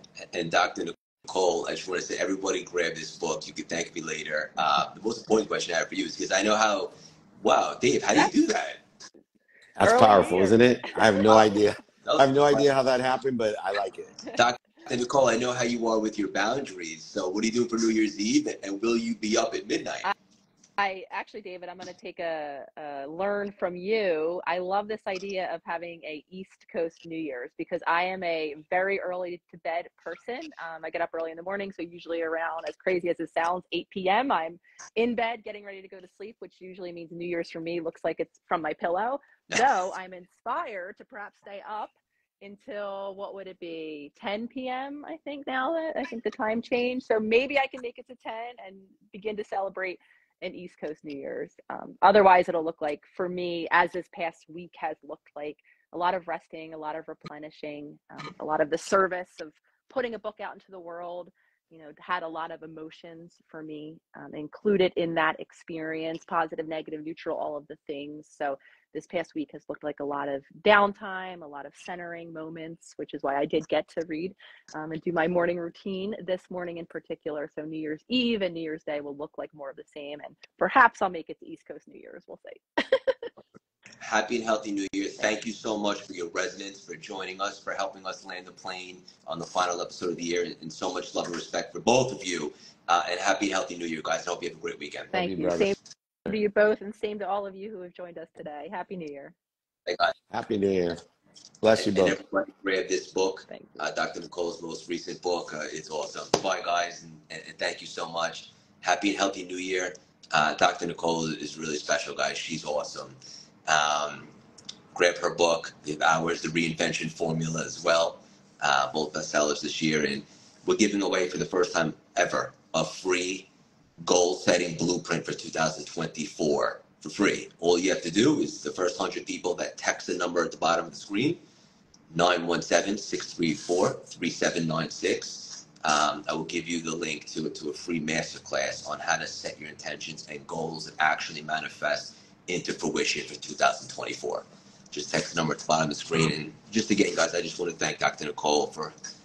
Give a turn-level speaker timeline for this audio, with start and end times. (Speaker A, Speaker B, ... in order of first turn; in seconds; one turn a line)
Speaker A: 0.2-8.8
Speaker B: 9.8-14.2
Speaker C: 9.8-10.6
Speaker A: 12.0-12.7
Speaker A: 14.3-20.1
Speaker C: 20.8-83.2
Speaker A: 84.0-95.1
Speaker C: 95.1-99.3
Speaker B: 95.2-95.7
Speaker A: 99.8-100.1
Speaker B: 100.3-101.0
Speaker B: 101.6-102.2
Speaker A: 101.8-114.3
Speaker A: 114.9-123.5
Speaker A: 124.0-131.4
Speaker A: 132.1-148.9